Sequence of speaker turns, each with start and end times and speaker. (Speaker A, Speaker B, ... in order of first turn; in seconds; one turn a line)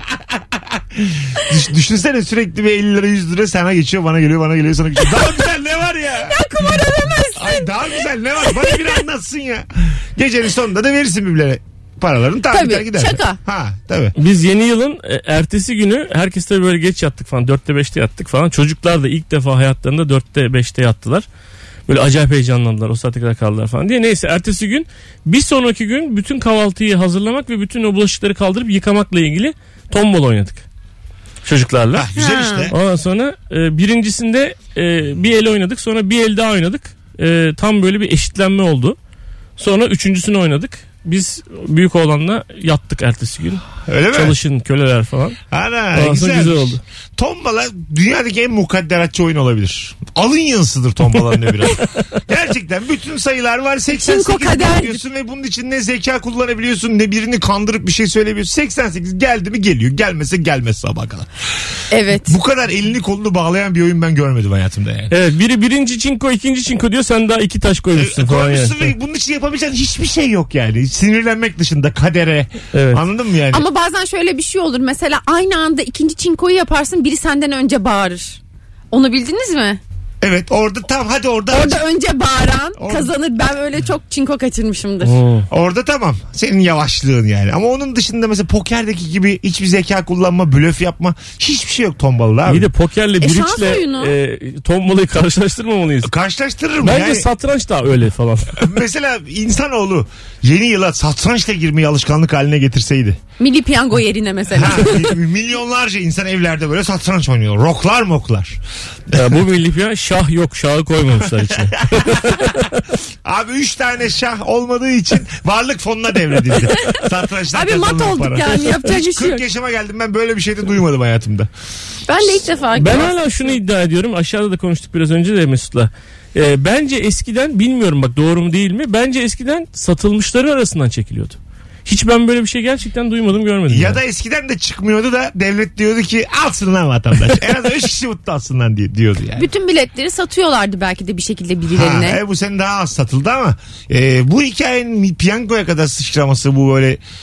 Speaker A: 0.1-14.1
Speaker B: 6.2-8.0
Speaker B: 12.5-13.4
Speaker C: 14.2-21.3
Speaker C: 21.9-30.6
Speaker C: 31.4-32.1
Speaker A: 31.9-32.8
Speaker B: 32.2-32.7
Speaker C: 32.7-39.0
Speaker C: 39.6-45.4
Speaker A: 43.9-44.4
Speaker A: 45.5-61.3
Speaker C: 45.9-46.8
Speaker B: 53.9-55.0
Speaker B: 61.9-62.3
Speaker A: 62.1-65.1
Speaker C: 65.1-68.9
Speaker A: 68.0-73.7
Speaker C: 72.7-73.0
Speaker B: 73.5-78.4
Speaker B: 78.9-79.8
Speaker A: 80.2-81.8
Speaker B: 81.5-85.1
Speaker A: 82.8-83.1
Speaker C: 85.0-85.5
Speaker A: 85.5-92.7
Speaker C: 92.5-96.1
Speaker B: 93.2-94.1
Speaker A: 96.0-97.3
Speaker C: 96.8-98.7
Speaker A: 98.5-103.2
Speaker B: 103.4-105.1
Speaker A: 104.5-109.4
Speaker C: 109.1-112.8
Speaker A: 111.3-112.4
Speaker A: 113.2-121.5
Speaker B: 116.7-119.5
Speaker B: 122.1-123.2
Speaker C: 122.8-134.0
Speaker A: 133.7-139.5
Speaker B: 139.4-142.2
Speaker A: 141.7-147.0